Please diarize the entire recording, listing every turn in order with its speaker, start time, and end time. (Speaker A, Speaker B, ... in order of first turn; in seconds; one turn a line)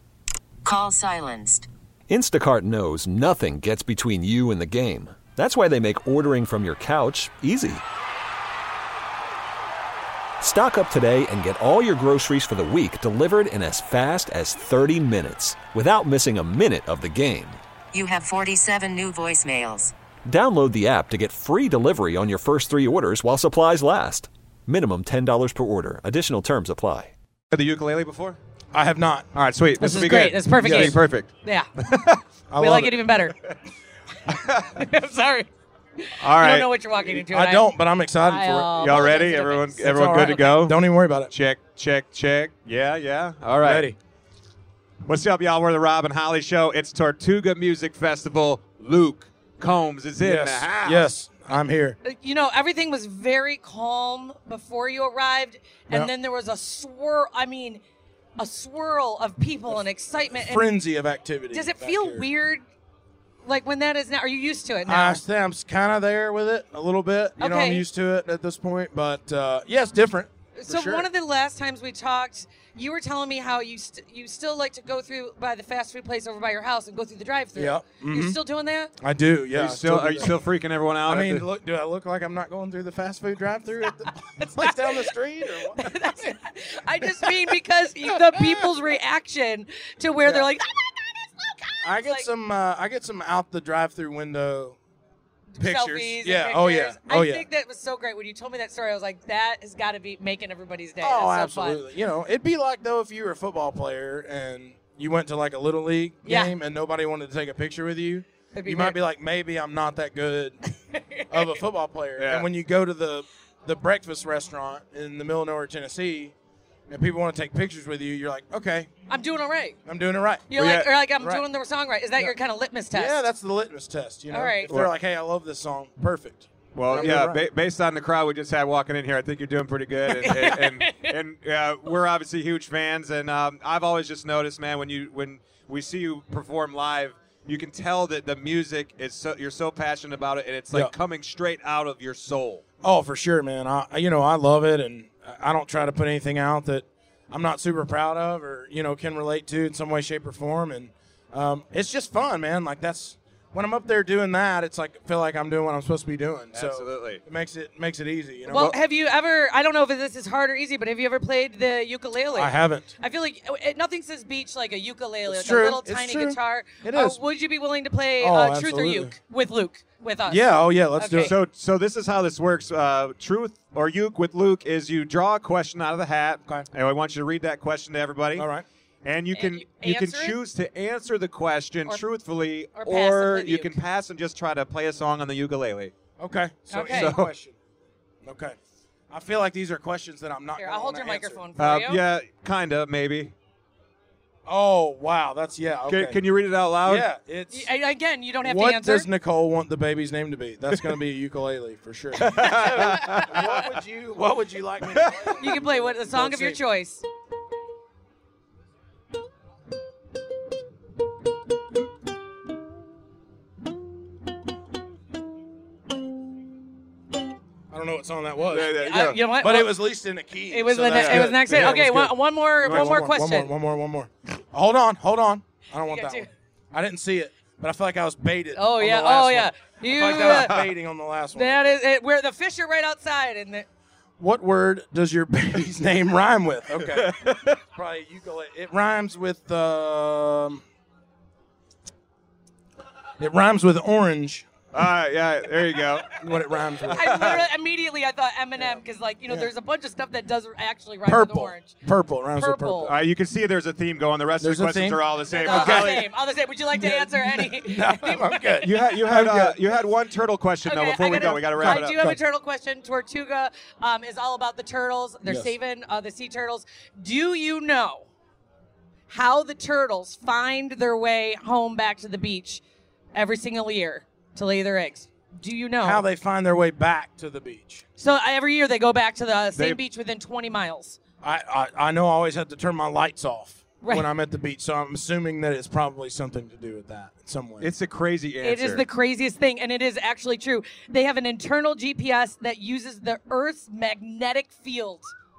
Speaker A: 0.6-1.7
Speaker B: 2.1-7.8
Speaker B: 10.4-17.6
Speaker A: 17.9-19.9
Speaker B: 20.2-27.1
Speaker C: 27.5-28.4
Speaker D: 28.7-29.3
Speaker C: 29.3-31.3
Speaker E: 29.8-31.7
Speaker D: 30.6-31.0
Speaker C: 31.8-32.2
Speaker D: 32.5-33.0
Speaker E: 32.6-33.3
Speaker E: 34.5-37.7
Speaker C: 36.2-36.7
Speaker D: 37.0-39.2
Speaker E: 38.2-40.5
Speaker C: 38.8-43.9
Speaker D: 39.8-41.3
Speaker D: 43.6-44.0
Speaker C: 45.0-51.1
Speaker D: 50.2-52.0
Speaker E: 52.0-57.8
Speaker E: 58.4-60.7
Speaker D: 60.3-62.3
Speaker E: 61.5-62.6
Speaker E: 63.4-65.2
Speaker D: 64.8-71.1
Speaker E: 67.4-67.8
Speaker E: 70.5-78.9
Speaker D: 77.5-78.4
Speaker D: 79.0-80.4
Speaker C: 79.5-81.5
Speaker D: 81.0-85.9
Speaker E: 84.4-92.3
Speaker D: 87.2-87.5
Speaker D: 88.3-88.7
Speaker D: 90.2-90.5
Speaker D: 91.8-94.8
Speaker E: 95.5-101.8
Speaker D: 95.6-97.5
Speaker D: 101.0-110.6
Speaker E: 106.2-106.5
Speaker E: 108.5-109.0
Speaker E: 110.9-111.5
Speaker D: 111.3-116.3
Speaker C: 112.2-112.5
Speaker D: 116.9-118.9
Speaker E: 119.1-119.8
Speaker D: 119.8-120.5
Speaker E: 120.5-123.2
Speaker C: 120.5-120.9
Speaker D: 121.2-121.4
Speaker D: 122.9-127.4
Speaker E: 124.3-124.7
Speaker C: 126.7-142.6
Speaker E: 130.1-131.2
Speaker D: 142.8-158.7
Speaker C: 156.5-157.2
Speaker E: 158.5-171.3
Speaker D: 162.3-162.9
Speaker D: 165.3-167.2
Speaker D: 168.2-169.2
Speaker D: 170.3-171.3
Speaker C: 171.2-178.5
Speaker D: 178.3-178.6
Speaker C: 179.0-185.9
Speaker E: 179.3-180.4
Speaker E: 182.8-183.8
Speaker D: 186.2-187.6
Speaker E: 186.7-187.2
Speaker C: 186.9-187.3
Speaker D: 188.2-188.6
Speaker D: 189.1-191.4
Speaker E: 190.6-192.0
Speaker C: 191.6-193.3
Speaker D: 194.4-196.2
Speaker C: 195.9-197.1
Speaker D: 196.8-197.7
Speaker E: 197.5-199.1
Speaker D: 198.4-206.6
Speaker C: 202.2-203.7
Speaker E: 205.4-207.0
Speaker D: 217.7-231.8
Speaker C: 218.5-219.2
Speaker E: 218.7-219.8
Speaker E: 220.5-223.5
Speaker C: 220.9-221.8
Speaker C: 222.7-223.0
Speaker E: 225.8-226.3
Speaker E: 228.6-230.6
Speaker E: 231.3-233.7
Speaker D: 234.2-240.6
Speaker C: 236.9-237.6
Speaker D: 243.2-244.5
Speaker C: 244.7-246.2
Speaker D: 246.2-247.4
Speaker E: 246.9-251.7
Speaker C: 246.9-247.4
Speaker D: 248.6-249.5
Speaker D: 251.1-253.0
Speaker E: 252.3-252.9
Speaker C: 252.9-256.1
Speaker D: 254.4-256.0
Speaker E: 255.3-258.8
Speaker D: 256.7-259.6
Speaker C: 258.6-262.0
Speaker E: 260.6-268.1
Speaker D: 261.1-262.2
Speaker D: 265.2-265.5
Speaker E: 269.1-272.6
Speaker E: 273.1-276.0
Speaker D: 275.8-277.8
Speaker E: 278.0-281.0
Speaker D: 281.2-287.7
Speaker E: 283.8-284.1
Speaker C: 287.6-288.8
Speaker E: 288.4-295.1